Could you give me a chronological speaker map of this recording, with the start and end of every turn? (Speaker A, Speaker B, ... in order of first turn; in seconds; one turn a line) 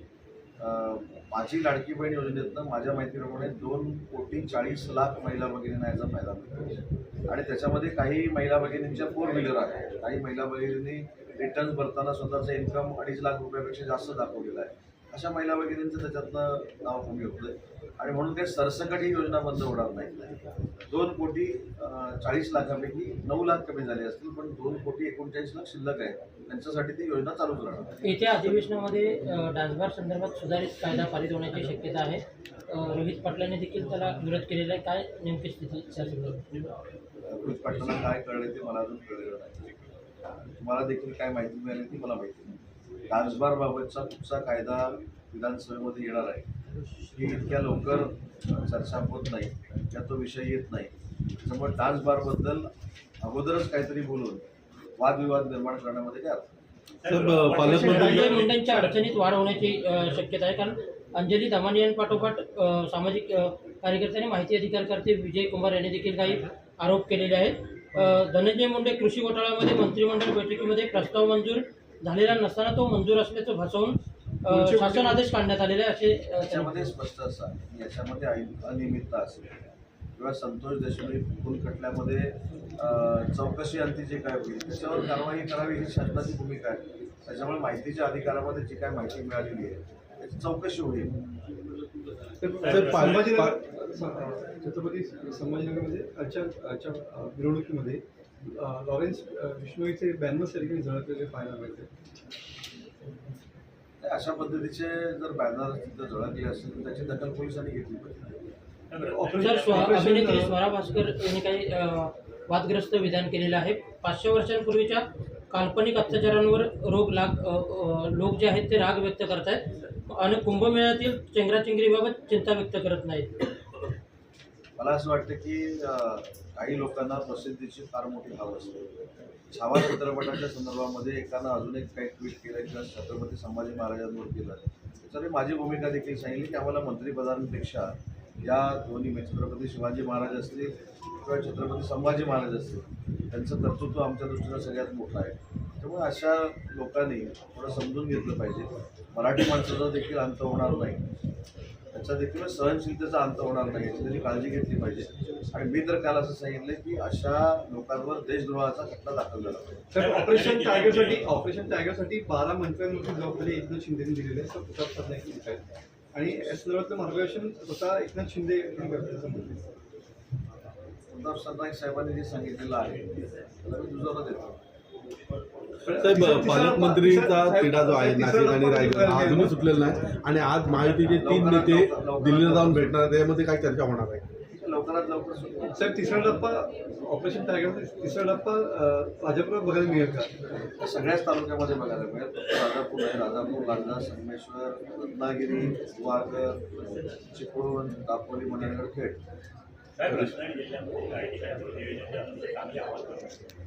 Speaker A: 0.6-28.6
Speaker B: 28.0-36.4
Speaker A: 37.2-39.7
Speaker A: 40.6-46.5
Speaker A: 47.1-50.9
Speaker A: 51.4-52.7
Speaker A: 53.2-54.4
Speaker A: 55.0-56.4
Speaker C: 57.0-59.1
Speaker D: 57.0-58.3
Speaker E: 57.6-58.3
Speaker B: 57.7-76.8
Speaker E: 74.5-75.2
Speaker A: 76.5-79.4
Speaker A: 80.2-91.1
Speaker E: 92.4-101.9
Speaker C: 92.6-93.4
Speaker D: 92.6-93.5
Speaker A: 104.0-108.4
Speaker C: 108.9-110.0
Speaker E: 109.0-110.5
Speaker B: 109.4-123.3
Speaker A: 124.8-128.8
Speaker A: 129.5-151.0
Speaker A: 151.9-159.8
Speaker E: 159.9-165.6
Speaker C: 159.9-161.3
Speaker E: 166.1-169.6
Speaker A: 171.1-174.6
Speaker E: 175.8-179.8
Speaker D: 176.0-184.2
Speaker A: 180.8-183.0
Speaker A: 184.6-185.8
Speaker E: 185.7-190.3
Speaker A: 190.8-199.2
Speaker C: 199.9-203.4